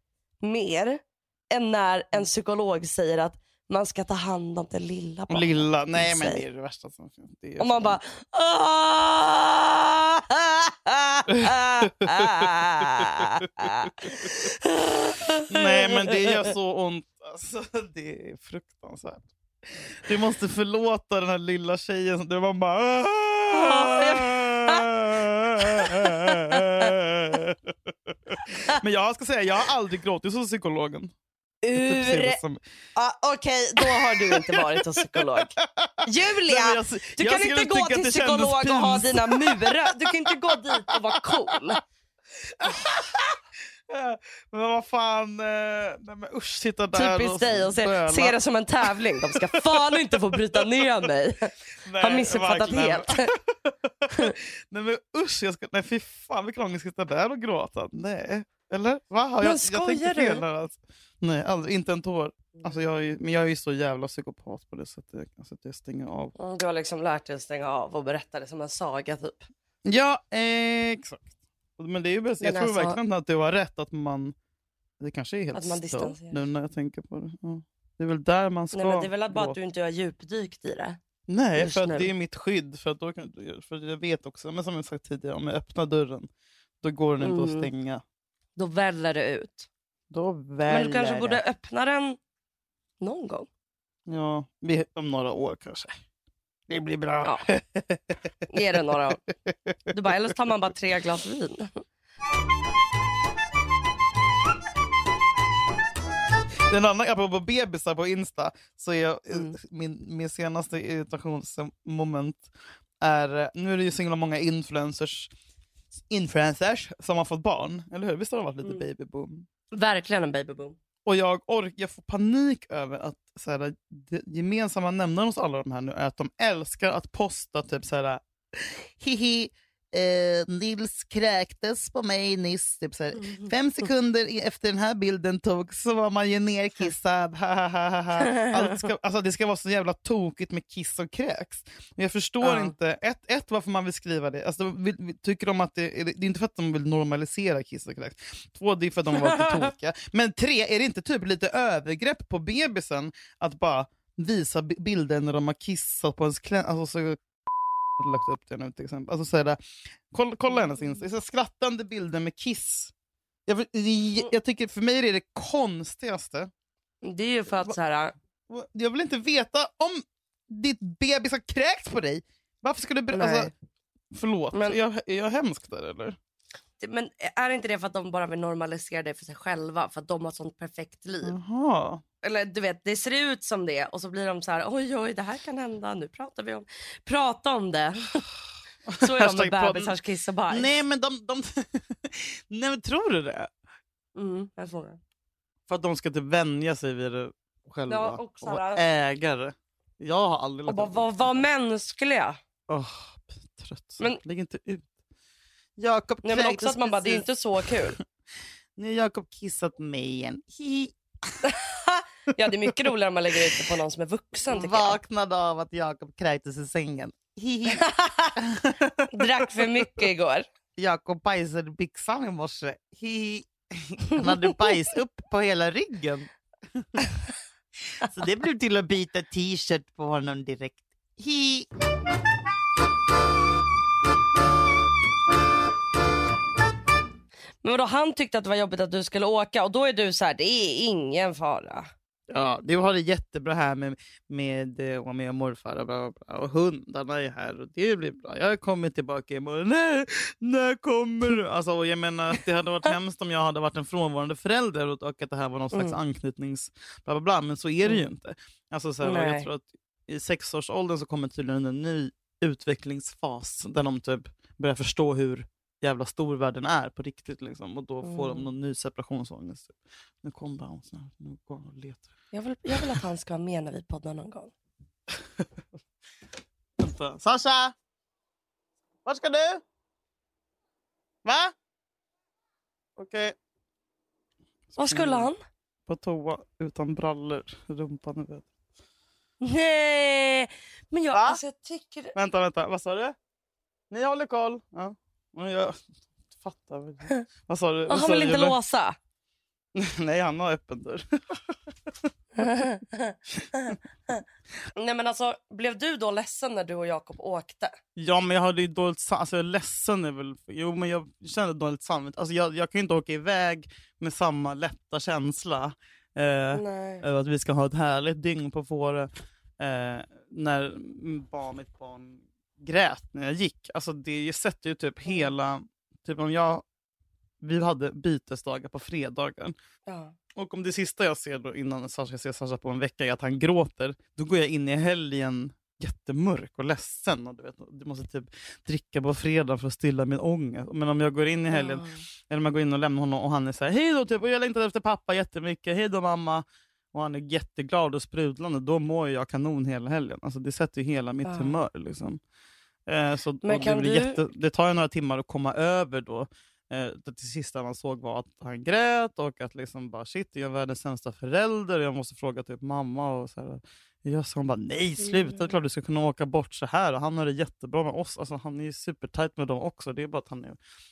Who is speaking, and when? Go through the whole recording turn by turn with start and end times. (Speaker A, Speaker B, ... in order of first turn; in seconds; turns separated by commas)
Speaker A: 0.4-6.4, Speaker B: 5.3-8.0, Speaker A: 7.6-16.5, Speaker B: 11.3-14.1, Speaker B: 15.5-19.3, Speaker B: 20.1-31.1, Speaker A: 23.5-24.9, Speaker A: 25.6-26.9, Speaker A: 28.5-28.8, Speaker A: 31.6-32.4, Speaker B: 31.7-32.6, Speaker A: 33.0-41.8, Speaker B: 33.8-40.3, Speaker B: 42.5-50.9, Speaker A: 46.9-53.3, Speaker B: 51.9-66.3, Speaker A: 59.4-60.4, Speaker A: 66.4-69.5, Speaker B: 69.8-74.3, Speaker A: 72.4-73.0, Speaker B: 75.0-79.6, Speaker A: 75.5-76.4, Speaker A: 78.7-81.0, Speaker B: 81.3-86.3, Speaker A: 81.6-82.1, Speaker B: 86.8-88.0, Speaker A: 87.2-87.7, Speaker A: 88.6-89.7, Speaker B: 90.1-91.4, Speaker A: 90.7-92.2, Speaker A: 93.0-93.5, Speaker B: 94.1-96.0, Speaker B: 96.7-100.3, Speaker A: 98.5-99.2, Speaker A: 99.9-101.8, Speaker B: 106.7-112.5, Speaker B: 113.0-115.3, Speaker B: 116.1-119.5, Speaker A: 119.7-120.8, Speaker B: 121.1-157.2, Speaker A: 142.4-142.7, Speaker A: 149.2-149.7, Speaker B: 158.0-159.6, Speaker B: 160.1-162.9, Speaker B: 163.5-166.5, Speaker A: 167.0-168.1, Speaker B: 168.5-173.5, Speaker A: 173.1-173.5, Speaker B: 174.1-176.2, Speaker A: 174.5-174.8, Speaker A: 176.8-181.4, Speaker B: 181.2-182.0, Speaker A: 182.2-188.2, Speaker B: 188.9-189.9, Speaker A: 189.0-190.8, Speaker B: 190.5-193.5, Speaker A: 194.2-195.0, Speaker B: 195.7-201.4, Speaker A: 197.9-198.8, Speaker A: 200.7-202.4, Speaker B: 202.7-204.9, Speaker B: 205.8-207.3, Speaker A: 206.2-208.0, Speaker B: 208.8-211.4, Speaker A: 211.4-215.0, Speaker B: 214.5-219.9, Speaker A: 217.7-218.3, Speaker A: 219.1-220.5, Speaker B: 220.8-226.8, Speaker B: 228.0-231.7, Speaker A: 237.6-241.9, Speaker B: 242.3-272.1, Speaker A: 259.0-259.5, Speaker A: 268.0-268.5, Speaker A: 272.3-274.5, Speaker B: 272.7-273.0, Speaker B: 276.8-277.7, Speaker B: 279.1-279.6, Speaker B: 281.2-281.5, Speaker B: 283.0-283.4, Speaker A: 284.8-285.4, Speaker B: 284.8-285.3, Speaker B: 285.9-288.5, Speaker A: 289.4-292.1, Speaker B: 291.1-291.4, Speaker B: 292.1-293.1, Speaker B: 293.9-295.8, Speaker B: 296.4-298.6, Speaker A: 297.9-299.0, Speaker B: 299.8-301.5, Speaker A: 302.4-303.8, Speaker A: 304.8-307.8, Speaker B: 308.0-326.6, Speaker A: 316.5-317.0, Speaker B: 327.4-329.6, Speaker A: 329.9-330.1, Speaker B: 330.4-352.2, Speaker A: 341.5-342.0, Speaker A: 351.2-351.6, Speaker B: 352.9-370.6, Speaker A: 353.4-354.2